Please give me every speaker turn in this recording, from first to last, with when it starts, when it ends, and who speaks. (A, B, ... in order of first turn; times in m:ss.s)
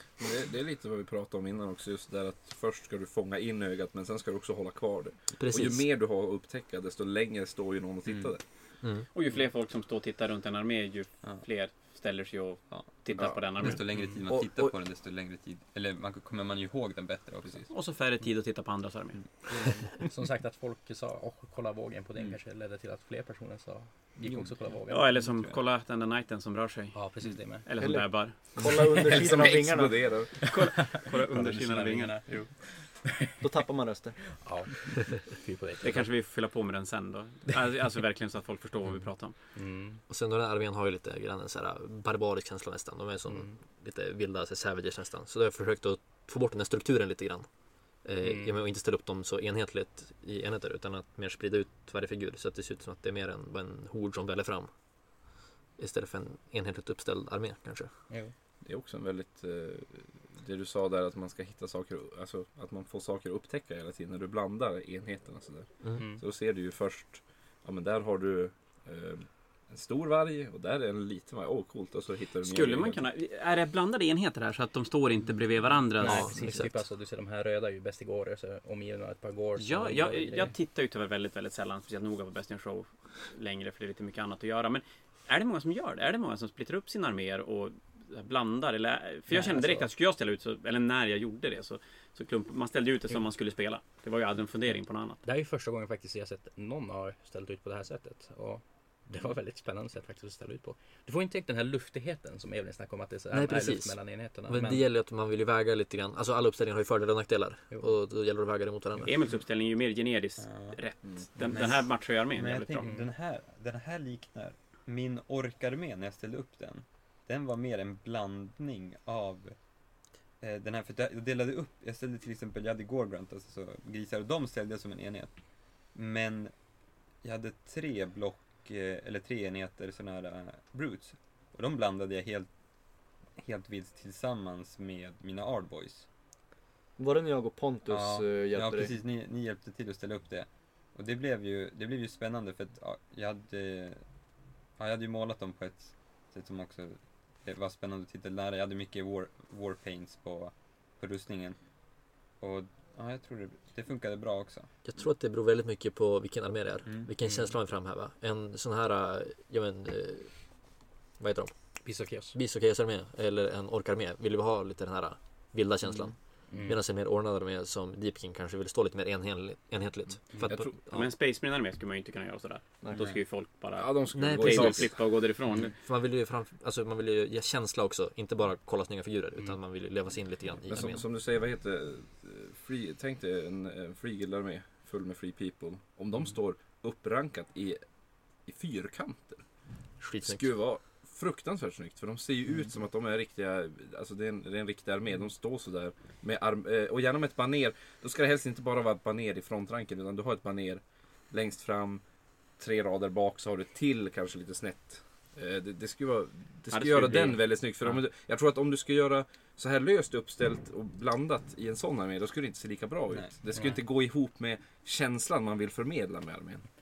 0:00.2-0:08.7 A
0:05.3-0:05.9 B
0:08.1-0:08.3 C
0:08.8-0:09.1 B
0:09.1-0:14.0 D
0:12.7-0:17.7 C
0:13.1-0:14.8 A
0:17.7-0:19.5 D
0:19.5-0:25.2 E
0:24.9-0:28.9 D
0:25.1-0:25.6 C
0:26.9-0:27.7 E
0:27.8-0:30.2 F
0:29.0-0:30.5 A
0:30.4-0:33.4 E
0:30.4-0:32.3 D
0:33.4-0:34.4 F
0:34.4-0:36.1 E
0:35.8-0:39.4 D
0:38.8-0:39.1 C
0:39.5-0:40.0 E
0:40.1-0:58.1 B
0:43.3-0:43.6 E
0:48.2-0:48.6 E
0:58.1-0:58.3 E
0:58.6-1:13.0 A
1:05.8-1:06.1 B
1:06.0-1:06.2 E
1:12.4-1:16.8 D
1:16.0-1:20.5 E
1:16.0-1:16.6 B
1:19.6-1:35.2 D
1:29.3-1:29.9 E
1:35.2-1:44.9 E
1:43.3-1:49.2 B
1:47.7-1:48.3 E
1:49.1-1:52.9 D
1:50.4-1:59.8 C
1:51.0-1:51.3 A
1:52.8-1:53.1 E
2:00.4-2:16.1 C
2:17.0-2:18.9 F
2:17.9-2:34.7 C
2:34.8-2:51.1 B
2:36.8-2:37.1 C
2:37.2-2:37.6 E
2:41.8-2:42.4 E
2:46.5-2:46.8 E
2:50.5-2:50.8 A
2:50.9-2:55.7 D
2:52.8-2:53.1 F
2:53.8-2:55.0 A
2:54.1-3:01.1 B
3:00.7-3:36.7 A
3:10.0-3:10.5 B
3:26.7-3:27.6 D
3:33.1-3:33.7 C